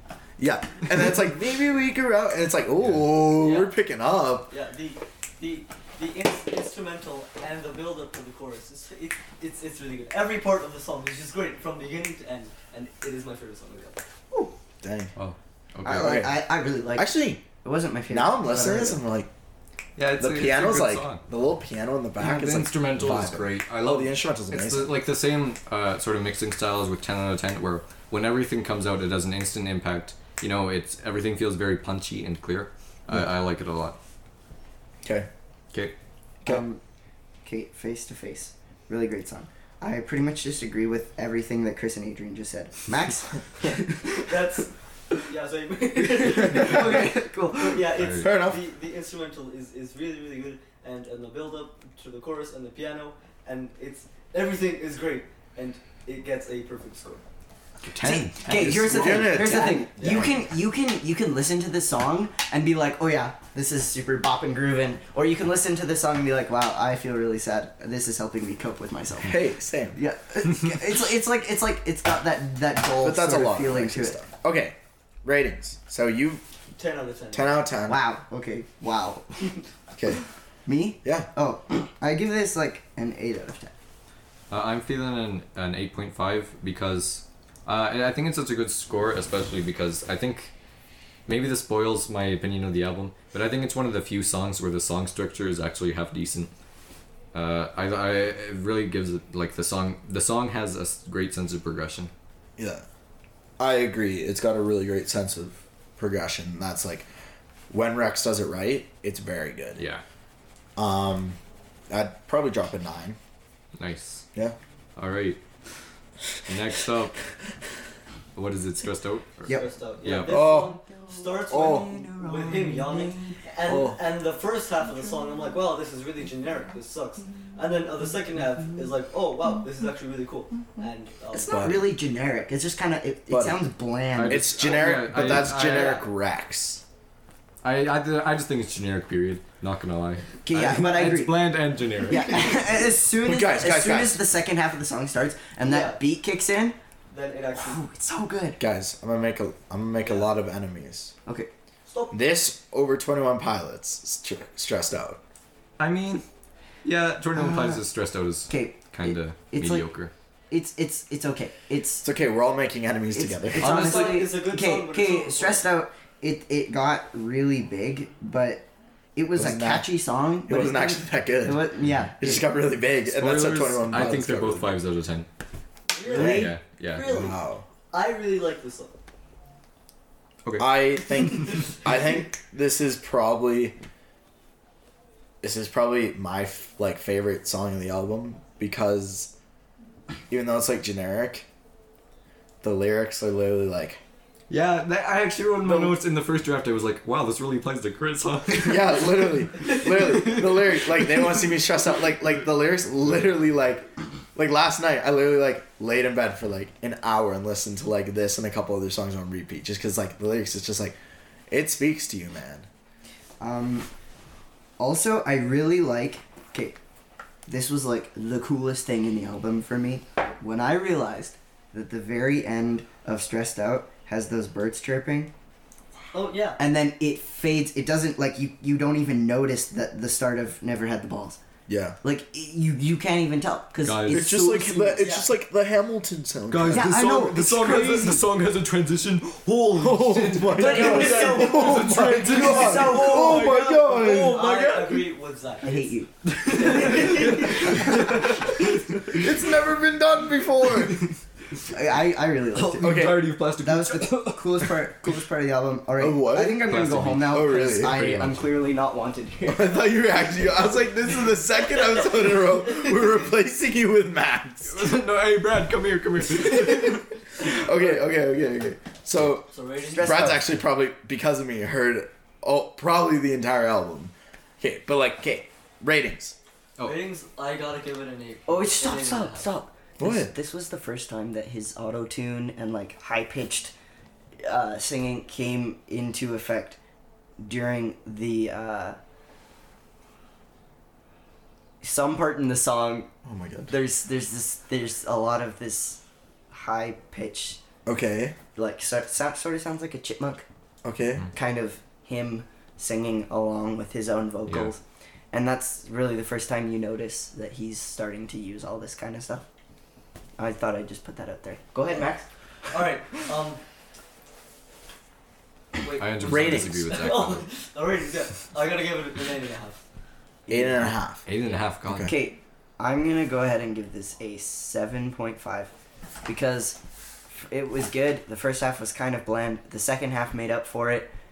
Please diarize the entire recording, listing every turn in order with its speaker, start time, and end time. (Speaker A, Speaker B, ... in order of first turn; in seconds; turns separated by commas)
Speaker A: 0.4-4.5, Speaker B: 2.8-3.1, Speaker C: 3.3-3.7, Speaker C: 4.5-14.0, Speaker A: 14.8-15.1, Speaker B: 15.2-16.2, Speaker D: 15.8-19.0, Speaker A: 15.9-16.4, Speaker A: 16.9-17.4, Speaker A: 18.1-19.3, Speaker B: 20.0-21.2, Speaker A: 20.2-24.9, Speaker B: 22.2-34.0, Speaker A: 35.0-35.3, Speaker D: 36.5-36.8, Speaker D: 37.4-44.3, Speaker C: 44.1-44.7, Speaker C: 45.2-57.2, Speaker D: 46.1-47.9, Speaker A: 46.6-46.9, Speaker B: 47.9-48.4, Speaker A: 48.1-48.6, Speaker B: 57.9-59.4, Speaker D: 58.0-74.2, Speaker A: 58.7-60.4, Speaker A: 69.2-70.0, Speaker A: 73.0-76.4, Speaker C: 76.8-77.7, Speaker A: 77.3-78.0, Speaker D: 77.9-79.5, Speaker A: 79.9-80.2, Speaker D: 80.7-83.8, Speaker A: 81.0-81.3, Speaker B: 84.5-90.5, Speaker B: 91.3-96.5, Speaker B: 97.3-102.1, Speaker A: 102.6-102.8, Speaker A: 103.6-107.1, Speaker A: 107.7-109.8, Speaker B: 109.8-110.0, Speaker A: 110.8-111.4, Speaker A: 111.9-113.2, Speaker B: 113.8-114.3, Speaker B: 115.0-115.4, Speaker B: 116.5-117.2, Speaker B: 118.3-120.5, Speaker C: 119.5-131.7, Speaker A: 120.2-120.8, Speaker A: 121.5-121.9, Speaker D: 121.5-123.4, Speaker A: 123.7-124.0, Speaker D: 131.3-134.5, Speaker A: 131.4-131.9, Speaker A: 133.3-133.6, Speaker B: 134.2-136.0, Speaker A: 134.2-136.8, Speaker C: 135.5-136.0, Speaker B: 137.6-142.6, Speaker D: 140.4-141.4, Speaker D: 142.1-146.8, Speaker A: 143.2-144.2, Speaker C: 145.6-146.0, Speaker C: 147.1-147.8, Speaker D: 147.6-148.6, Speaker A: 148.6-151.1, Speaker C: 150.0-150.3, Speaker C: 151.9-152.2, Speaker A: 152.1-155.2, Speaker B: 155.8-156.2, Speaker B: 156.8-160.1, Speaker D: 157.3-157.8, Speaker D: 158.5-159.9, Speaker D: 160.5-162.1, Speaker A: 162.0-163.8, Speaker D: 163.1-172.4, Speaker C: 163.6-165.7, Speaker B: 163.7-164.1, Speaker A: 169.3-169.9, Speaker A: 170.4-174.8, Speaker B: 173.1-175.3, Speaker C: 175.9-177.4, Speaker D: 176.0-176.6, Speaker A: 176.1-176.5, Speaker B: 176.1-177.3, Speaker A: 177.2-177.7, Speaker C: 177.9-178.9, Speaker B: 180.4-180.8, Speaker A: 180.6-183.8, Speaker A: 185.4-189.3, Speaker A: 190.3-191.5, Speaker A: 192.6-194.0, Speaker B: 194.5-199.2, Speaker A: 198.5-211.0, Speaker B: 199.7-200.4, Speaker A: 211.5-212.7, Speaker D: 213.4-213.9, Speaker D: 214.8-216.8, Speaker D: 217.5-225.3, Speaker C: 226.1-226.6, Speaker D: 226.6-231.4, Speaker A: 231.7-232.0, Speaker D: 232.0-235.0, Speaker B: 233.8-235.0, Speaker A: 234.1-236.9, Speaker C: 235.0-235.3, Speaker B: 236.5-244.9, Speaker D: 236.7-238.2, Speaker A: 239.8-245.0, Speaker D: 240.6-243.4, Speaker C: 240.6-245.9, Speaker D: 245.6-248.3, Speaker B: 246.4-249.2, Speaker C: 246.5-247.9, Speaker A: 249.0-251.1, Speaker B: 250.8-251.1, Speaker D: 251.7-259.8, Speaker B: 252.5-254.8, Speaker A: 252.8-253.3, Speaker A: 256.0-258.0, Speaker B: 256.6-258.5, Speaker A: 259.5-264.9, Speaker C: 261.8-262.3, Speaker B: 264.7-267.5, Speaker A: 267.4-276.4, Speaker C: 269.5-270.3, Speaker D: 269.9-270.5, Speaker B: 276.8-277.1, Speaker C: 276.8-279.5, Speaker D: 278.5-283.7, Speaker A: 280.0-280.3, Speaker D: 284.4-286.8, Speaker D: 287.4-289.0, Speaker D: 291.8-293.1, Speaker A: 293.2-293.7, Speaker D: 293.7-297.6, Speaker A: 297.9-298.4, Speaker D: 298.6-300.4, Speaker A: 300.8-301.3, Speaker D: 301.3-304.8, Speaker B: 304.5-304.7, Speaker D: 305.3-309.5, Speaker D: 310.4-312.3, Speaker C: 312.7-313.6, Speaker C: 315.8-319.8, Speaker B: 316.0-317.5, Speaker A: 316.2-316.9, Speaker D: 320.5-320.9, Speaker A: 320.5-321.2, Speaker B: 321.2-322.1, Speaker A: 321.9-322.1, Speaker D: 322.0-325.7, Speaker D: 326.2-326.8, Speaker D: 327.3-331.1